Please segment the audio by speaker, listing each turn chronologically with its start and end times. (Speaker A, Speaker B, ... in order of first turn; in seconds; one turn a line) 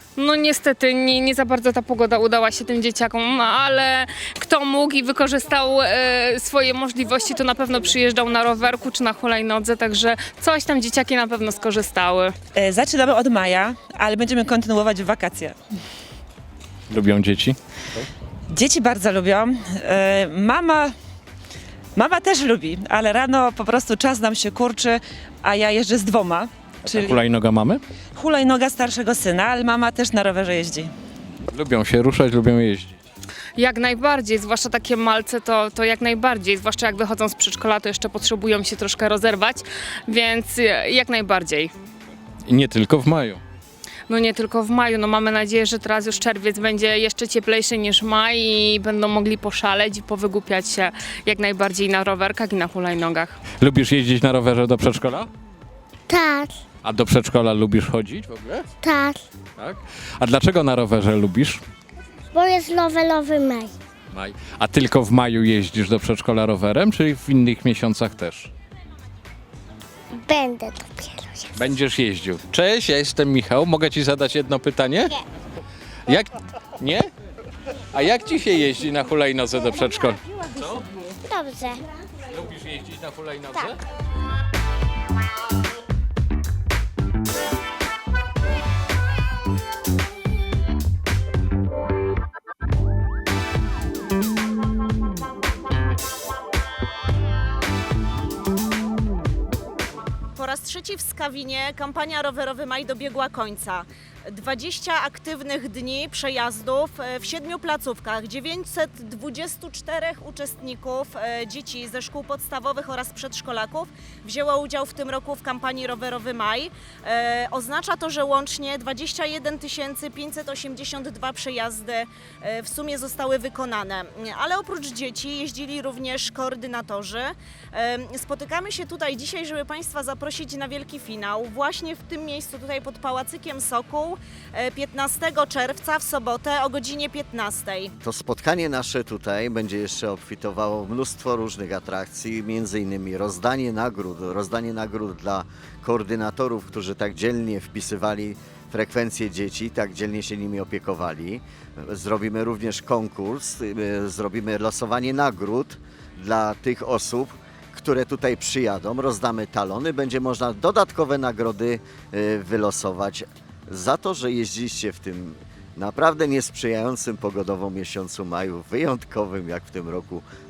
Speaker A: 0.2-12.3
Speaker B: 12.5-15.6
Speaker C: 16.9-18.0
Speaker B: 18.5-20.9
Speaker B: 21.9-27.1
Speaker C: 26.9-27.8
Speaker B: 28.1-30.9
Speaker C: 31.5-33.0
Speaker A: 33.6-41.7
Speaker C: 42.5-43.4
Speaker A: 44.1-53.4
Speaker C: 53.6-55.3
Speaker D: 56.1-56.6
Speaker C: 56.8-58.7
Speaker D: 58.8-59.2
Speaker C: 59.6-61.6
Speaker D: 62.3-63.7
Speaker C: 64.1-68.5
Speaker D: 70.2-71.5
Speaker C: 71.5-75.2
Speaker C: 76.1-77.1
Speaker C: 77.9-80.8
Speaker D: 81.3-81.8
Speaker C: 82.3-83.8
Speaker E: 100.3-137.9
Speaker F: 138.0-170.2